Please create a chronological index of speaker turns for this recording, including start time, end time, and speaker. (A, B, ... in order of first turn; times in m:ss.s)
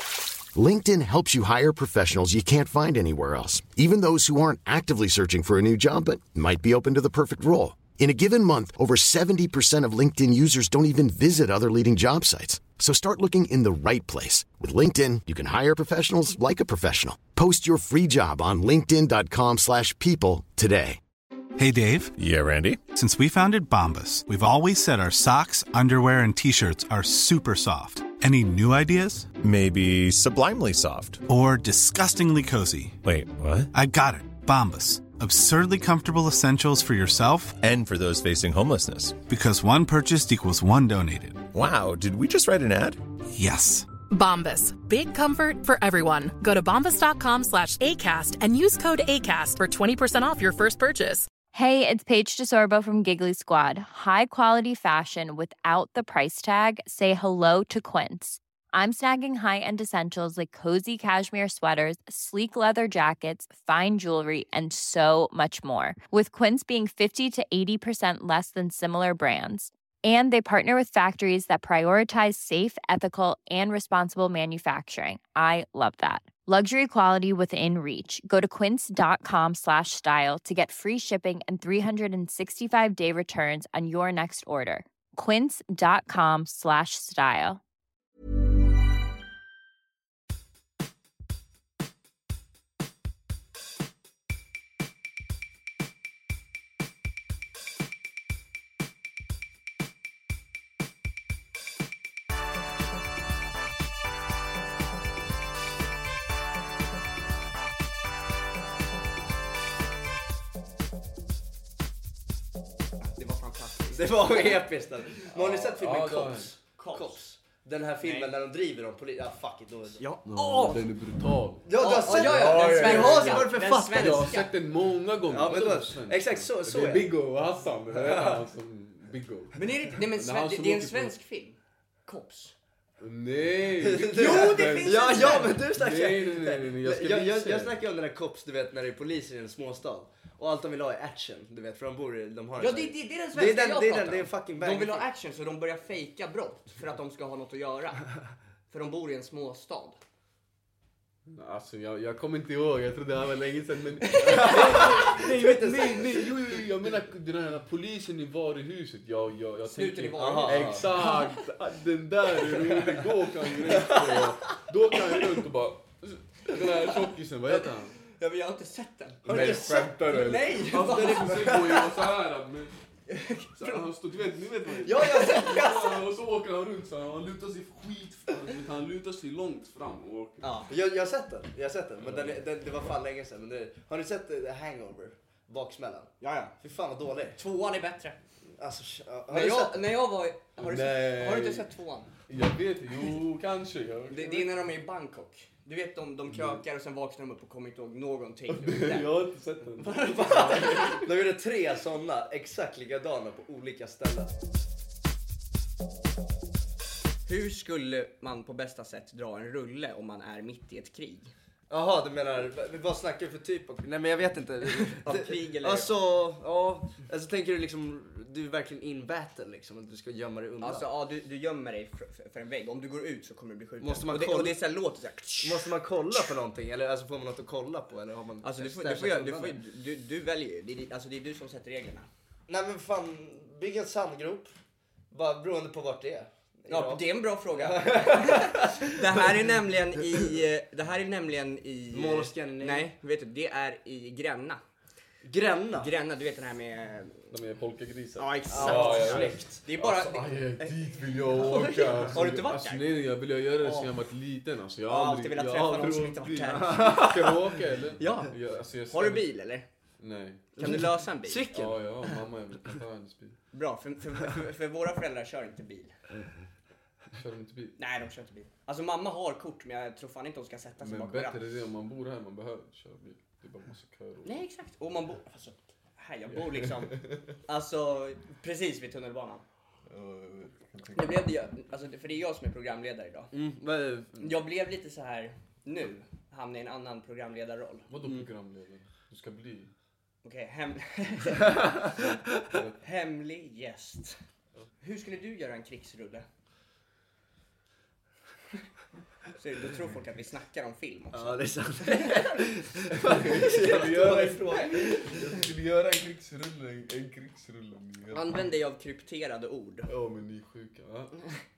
0:00.6-0:21.0 A
0:21.6-0:22.2 B
0:22.2-0:22.8 C
0:22.9-0:29.3 B
0:29.4-0:31.2 C
0:31.3-0:33.0 B
0:33.0-0:33.7 C
0:33.7-0:37.6 B
0:37.6-0:39.2 C
0:39.2-0:41.5 B
0:41.5-0:43.0 C
0:43.3-0:43.9 B
0:44.1-0:51.3 D
0:51.5-1:27.6 E
1:53.0-1:54.6 F
1:53.9-2:00.0 G
1:55.4-1:56.5 H
1:56.8-1:57.2 F
1:58.0-1:58.4 F
2:00.0-2:00.9 F
2:00.2-2:11.2 H
2:01.6-2:04.4 G
2:01.7-2:04.5 F
2:05.3-2:07.1 G
2:07.9-2:08.4 G
2:09.6-2:12.6 F
2:13.0-2:17.8 H
2:13.8-2:25.1 G
2:14.1-2:15.6 F
2:22.6-2:28.1 F
2:28.7-2:30.0 F
2:31.3-2:48.0 H
2:34.1-2:36.6 G
2:39.7-2:41.1 F
2:40.2-2:40.9 G
2:42.4-2:43.0 G
2:43.6-2:44.3 G
2:47.5-2:51.6 F
2:49.3-2:51.9 G
2:49.3-2:52.7 H
2:53.1-2:53.8 F
2:53.6-3:00.5 H
2:54.8-2:56.1 G
3:00.4-3:00.7 F
3:00.7-3:07.4 G
3:02.0-3:02.4 H
3:06.2-3:06.5 F
3:07.4-3:08.2 F
3:08.6-3:09.9 G
3:09.3-3:12.1 F
3:10.6-3:11.7 H
3:12.3-3:14.5 H
3:14.1-3:19.1 F
3:16.3-3:16.6 H
3:18.5-3:21.1 H
3:19.8-3:21.0 F
3:20.0-3:24.3 G
3:27.3-3:31.3 F
3:31.7-3:40.9 G
3:34.8-3:36.0 F
3:40.6-3:46.3 F
3:43.8-3:44.6 G
3:45.4-3:49.6 G
3:48.4-3:52.1 F
3:52.5-3:54.5 G
3:55.1-3:59.2 G
3:56.7-4:04.6 F
4:01.9-4:02.9 G
4:05.2-4:05.9 G
4:05.7-4:07.3 F
4:07.3-4:19.3 H
4:08.2-4:13.0 F
4:08.5-4:09.6 G
4:13.6-4:13.9 F
4:14.9-4:17.1 F
4:16.5-4:18.3 G
4:18.9-4:19.7 F
4:20.0-4:20.9 H
4:20.6-4:21.5 F
4:20.6-4:22.2 G
4:21.5-4:23.4 H
4:23.5-4:25.9 F
4:27.1-4:27.8 H
4:27.8-4:31.4 F
4:30.8-4:34.4 H
4:34.2-4:39.4 F
4:36.3-4:37.4 H
4:39.9-4:41.3 H
4:41.0-4:43.3 F
4:43.3-4:44.2 G
4:44.2-4:47.9 F
4:47.9-4:49.7 H
4:50.2-4:52.2 F
4:51.4-4:51.7 G
4:51.9-4:52.8 H
4:52.8-4:54.2 F
4:54.8-4:56.3 F
4:59.3-5:02.3 F
5:01.1-5:05.3 G
5:02.9-5:08.5 H
5:08.1-5:09.9 F
5:09.9-5:11.2 H